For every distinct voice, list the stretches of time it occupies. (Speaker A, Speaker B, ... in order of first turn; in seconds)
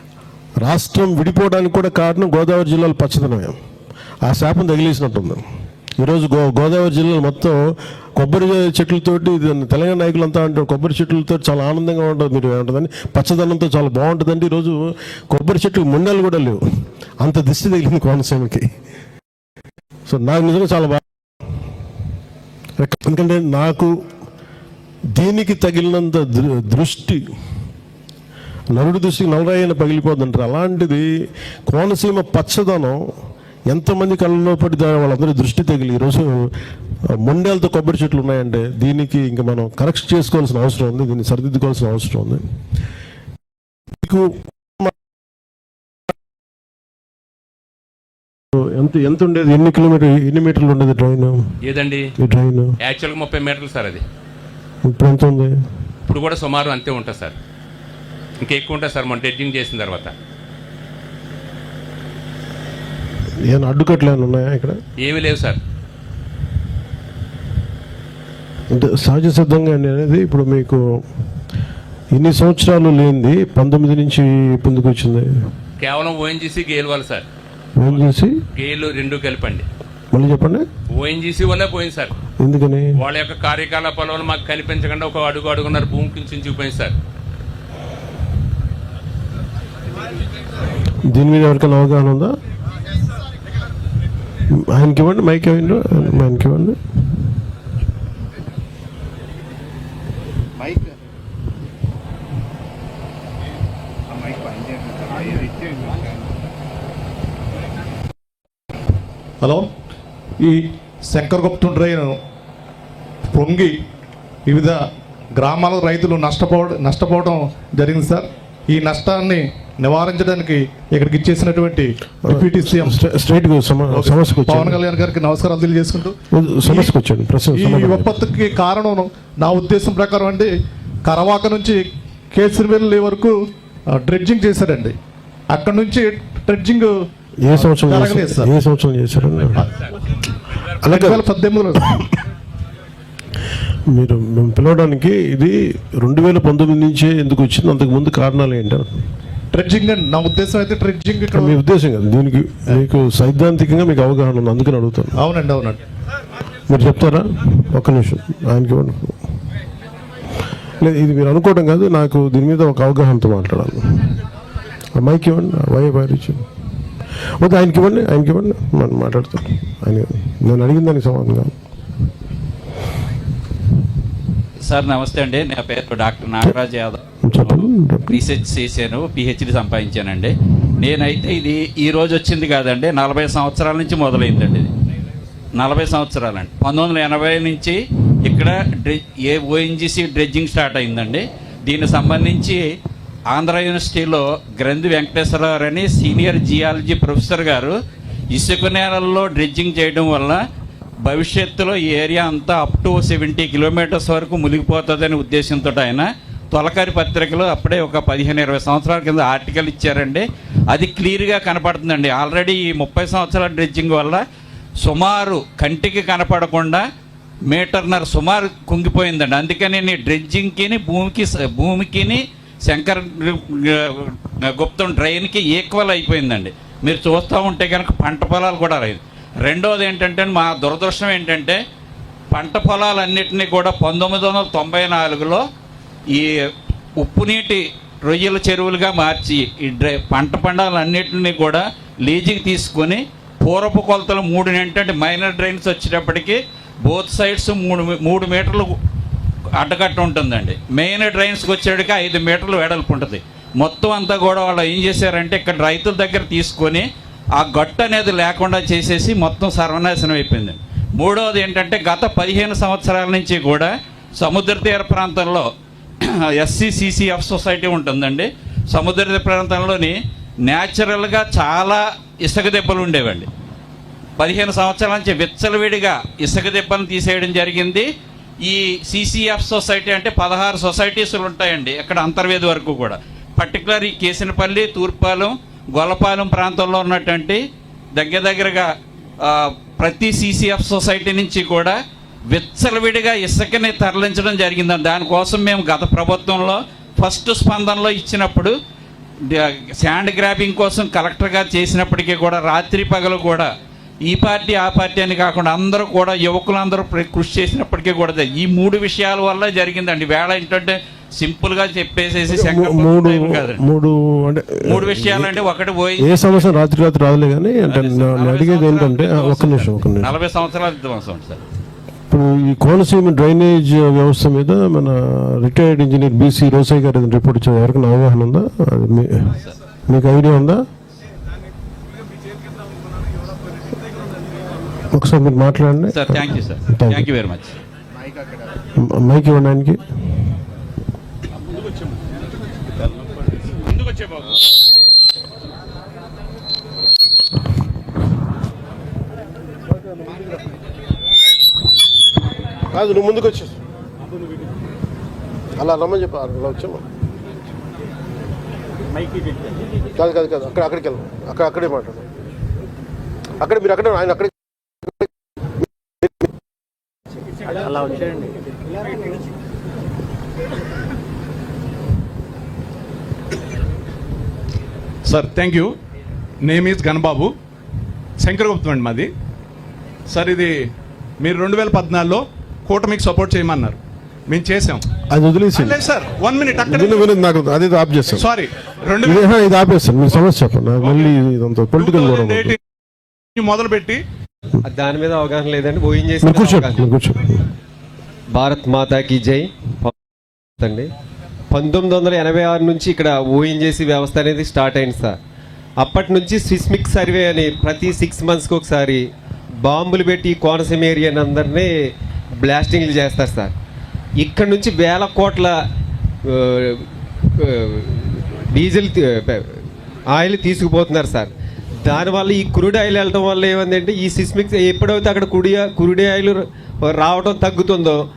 Speaker A: 0.6-3.6, 4.2-5.4, 6.0-16.6, 17.2-18.7, 20.1-21.0, 22.8-23.9, 25.1-27.2, 28.7-31.0, 31.7-33.0, 33.7-36.5, 37.1-42.4, 44.0-44.9, 48.6-51.5, 52.2-52.8, 54.9-55.5, 63.5-64.8, 68.7-71.0, 72.1-75.3, 77.8-78.3, 80.1-80.6, 82.4-82.9, 91.1-92.3, 94.6-96.8, 122.3-124.8, 126.3-128.2, 137.4-139.7, 140.8-141.2, 143.9-149.0, 151.3-155.2, 156.7-159.2, 160.8-164.1, 165.0-166.4, 167.4-171.5, 177.3-178.2, 312.3-315.4, 316.0-320.2, 322.1-330.6, 334.9-337.1, 338.8-339.8, 352.7-353.6, 355.6-356.8, 359.9-362.1, 363.4-364.3, 385.1-385.8, 386.6-388.3, 389.0-392.6, 396.2-397.4
Speaker B: 51.6-52.1, 52.8-54.0, 56.0-57.4, 58.4-60.1, 65.0-65.6, 75.8-77.2, 77.8-79.7, 80.9-82.2, 83.0-87.0
Speaker C: 109.4-109.7, 110.4-112.2, 113.3-113.8, 114.5-114.8, 115.4-123.0, 123.9-126.9, 127.5-130.5, 131.1-133.4, 133.9-134.9, 135.5-136.9, 137.5-138.5, 140.8-142.0, 149.5-151.6, 155.2-155.8
Speaker D: 174.7-184.7, 185.6-192.6, 193.3-197.8, 198.3-200.4, 201.1-214.2, 214.8-216.8, 217.5-231.6, 232.3-235.4, 236.1-248.8, 249.6-265.5, 266.0-273.3, 274.2-277.9, 278.4-287.4, 288.0-288.7, 289.2-291.8, 292.3-298.5, 299.2-303.5, 304.1-313.6, 314.8-316.1, 317.7-321.4, 335.9-337.5
Speaker E: 375.1-375.7, 376.4-377.3, 378.2-379.1, 380.1-384.9, 385.6-387.1, 388.1-389.3, 390.8-391.1, 391.8-392.6, 393.4-394.1
Speaker F: 394.7-396.8, 398.4-399.9, 400.6-400.9, 401.5-405.1, 405.8-409.0, 409.6-411.7, 412.4-413.5, 414.2-415.5, 416.3-416.9, 417.4-419.6, 420.1-421.3, 421.9-426.4, 426.9-428.0